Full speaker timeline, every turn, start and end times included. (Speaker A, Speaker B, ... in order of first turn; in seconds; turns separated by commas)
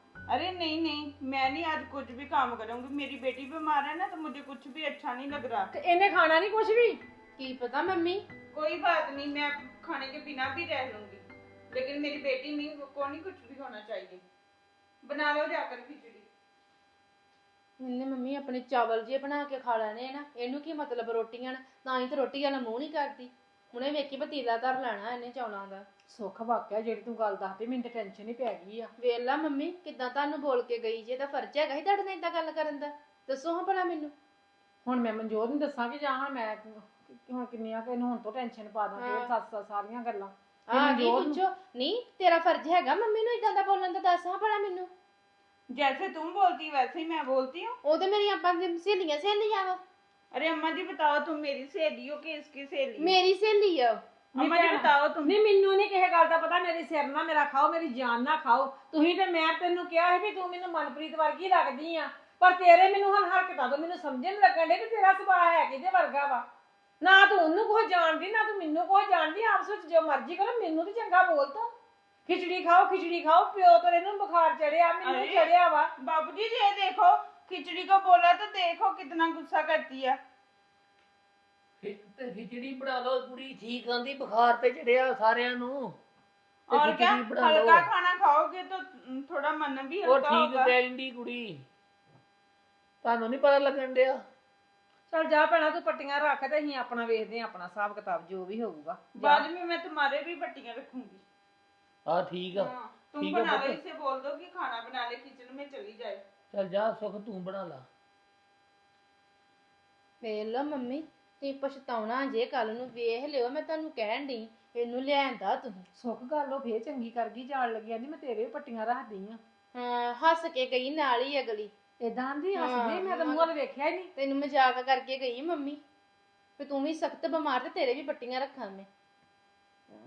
Speaker A: 0.3-5.7, Speaker B: 5.7-7.0, Speaker C: 7.4-8.2, Speaker A: 8.5-14.2, Speaker A: 15.0-16.2, Speaker C: 17.8-25.9, Speaker B: 26.1-28.9, Speaker C: 29.0-34.1, Speaker B: 34.9-41.4, Speaker C: 39.0-39.3, Speaker C: 40.7-44.9, Speaker A: 45.7-47.7, Speaker C: 47.8-49.8, Speaker A: 50.3-53.1, Speaker C: 53.0-54.0, Speaker A: 54.4-55.3, Speaker B: 54.4-66.5, Speaker B: 67.0-71.7, Speaker B: 72.3-75.9, Speaker A: 75.0-80.2, Speaker D: 81.8-86.0, Speaker D: 86.7-87.9, Speaker A: 86.7-90.7, Speaker D: 90.0-91.6, Speaker D: 93.0-94.2, Speaker B: 95.1-99.5, Speaker A: 99.2-101.2, Speaker D: 102.1-103.8, Speaker A: 102.6-106.2, Speaker D: 106.5-107.9, Speaker C: 110.2-115.9, Speaker B: 116.0-119.4, Speaker C: 119.7-121.7, Speaker B: 122.0-124.1, Speaker C: 122.5-123.5, Speaker C: 124.2-125.8, Speaker C: 126.6-128.9